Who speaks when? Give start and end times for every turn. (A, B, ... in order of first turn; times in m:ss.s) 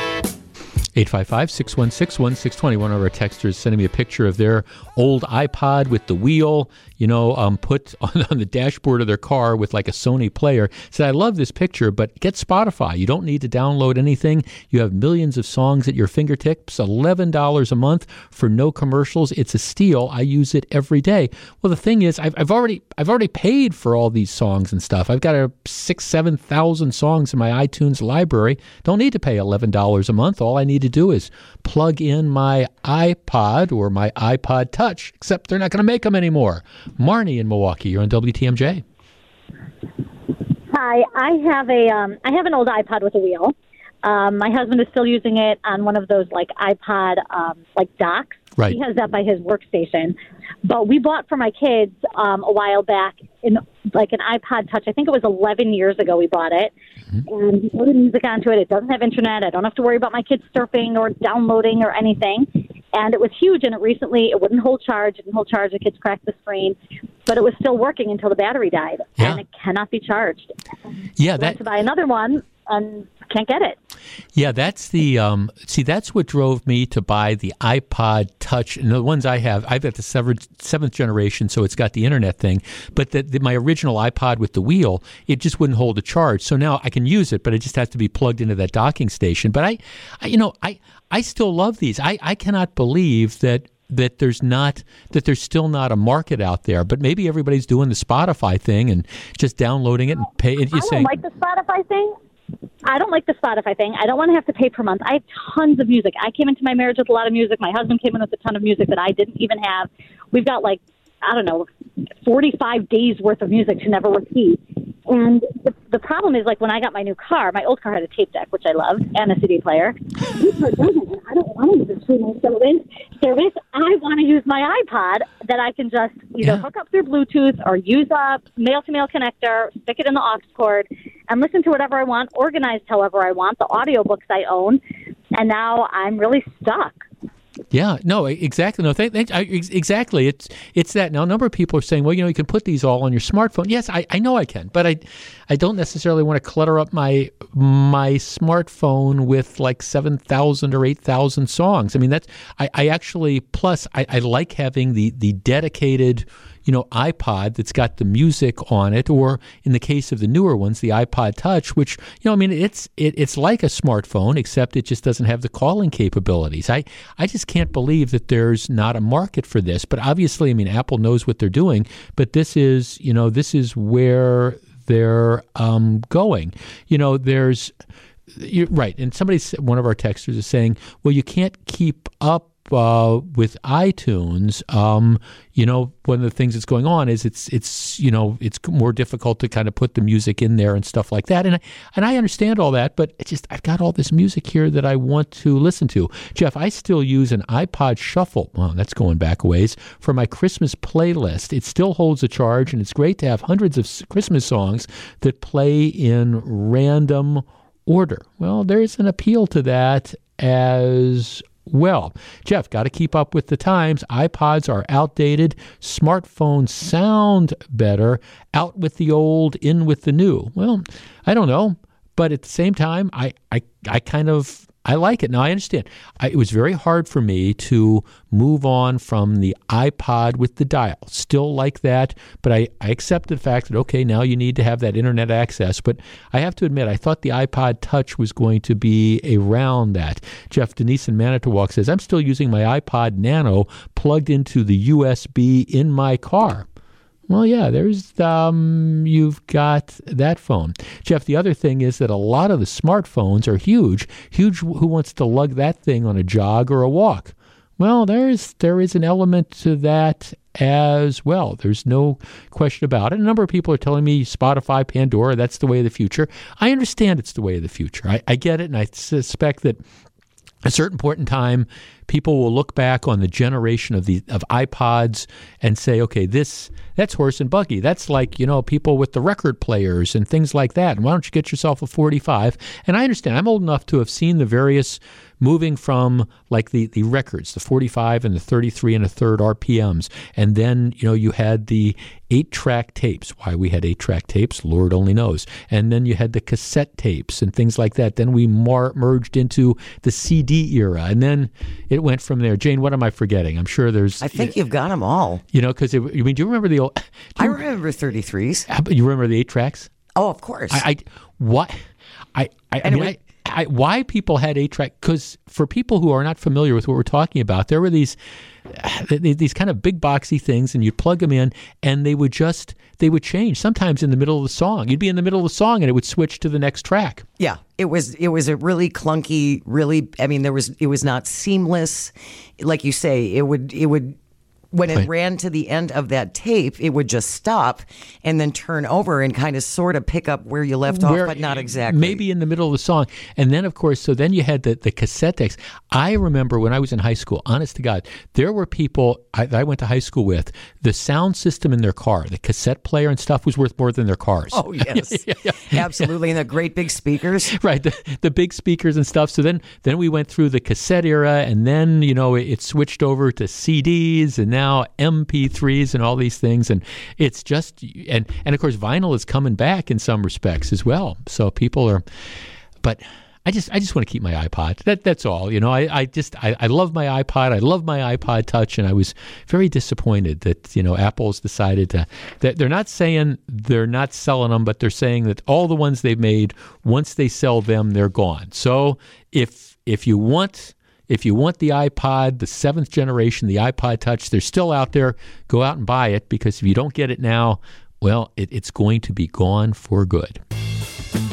0:00.9-0:38.8 A
0:40.7-0:56.7 B
0:57.3-1:10.5 B
1:11.2-1:11.6 A
1:11.4-1:13.8 B
1:14.3-1:41.2 A
1:40.7-1:42.1 B
1:42.8-2:14.8 B
2:15.3-2:17.0 B
2:17.7-2:57.7 A
2:58.3-4:06.7 A
4:07.3-4:29.8 A
4:30.6-5:04.6 A
5:04.2-5:05.4 C
5:05.5-5:07.6 A
5:07.4-5:08.6 C
5:08.7-5:09.9 A
5:10.2-5:10.8 C
5:10.7-5:11.8 A
5:12.3-5:27.2 A
5:12.8-5:13.2 C
5:27.4-5:34.2 C
5:34.7-5:42.2 C
5:40.9-5:56.1 A
5:54.5-5:57.5 C
5:57.4-6:12.0 A
6:12.8-6:40.4 A